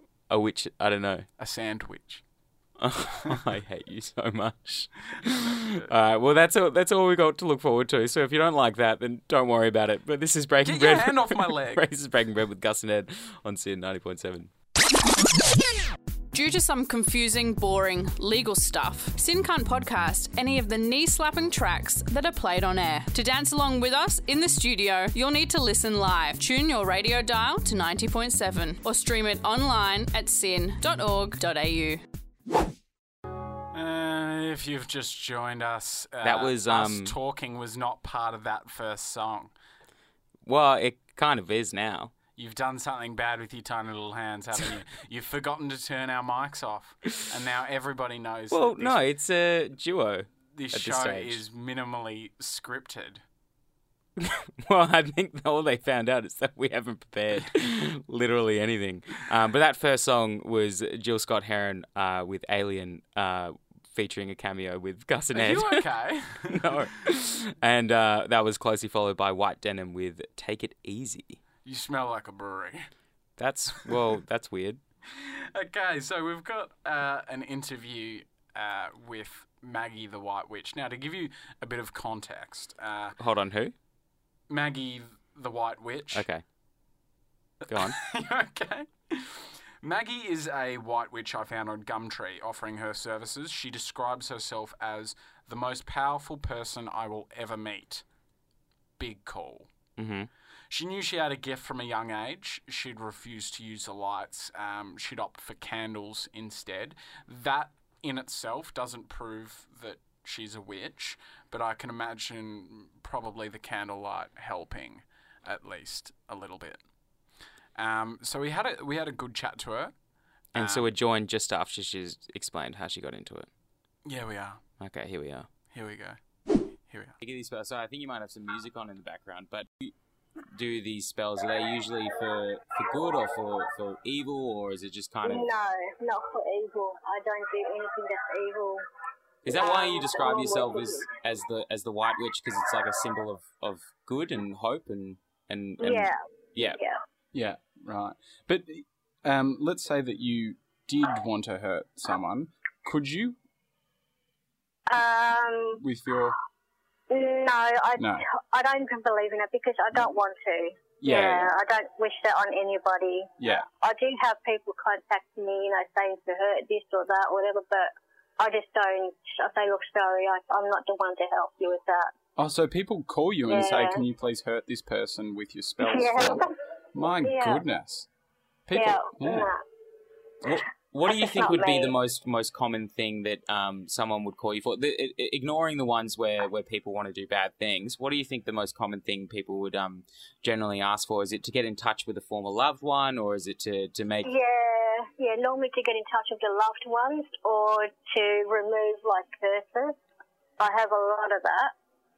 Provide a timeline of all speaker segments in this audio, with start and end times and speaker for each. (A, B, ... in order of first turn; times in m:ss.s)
0:00.3-0:01.2 A
0:01.4-0:02.2 B
0:02.8-0:14.5 A
0:05.5-0:05.9 B
0:10.6-0:11.8 B
0:16.3-0:32.0 C
0:33.7-0:39.5 B
0:36.2-0:37.2 A
0:40.4-0:42.1 A
0:42.4-0:49.0 B
0:48.5-0:51.4 A
0:50.5-0:53.2 B
0:54.2-1:05.9 A
1:05.3-1:06.8 B
1:06.5-1:11.4 A
1:11.6-1:12.9 B
1:13.4-1:14.8 A
1:15.1-1:23.2 B
1:23.2-1:23.7 A
1:24.5-1:26.2 B
1:26.1-1:26.4 A
1:27.6-1:38.0 B
1:27.7-1:28.0 A
1:39.0-1:39.7 B
1:40.0-1:40.3 A
1:40.7-1:56.8 B
1:57.8-1:59.9 B
2:00.5-2:00.9 B
2:00.5-2:03.5 A
2:04.0-2:04.6 B
2:04.8-2:05.5 A
2:05.7-2:06.2 B
2:06.9-2:07.2 B
2:07.2-2:09.9 A
2:10.5-2:15.5 A
2:15.2-2:18.8 D
2:19.4-2:26.8 A
2:19.5-2:21.1 D
2:25.8-2:27.0 D
2:27.3-2:33.4 B
2:34.9-2:35.8 D
2:35.8-2:36.4 B
2:37.1-2:52.1 D
2:38.0-2:38.2 B
2:41.0-2:41.5 B
2:43.4-2:43.6 B
2:52.4-2:58.1 B
2:53.5-2:54.0 D
2:55.8-2:56.5 D
2:57.2-2:57.6 D
2:58.7-2:59.5 B
2:58.7-2:59.6 D
3:00.4-3:14.3 A
3:01.0-3:01.9 D
3:14.2-3:20.0 D
3:20.6-3:21.7 D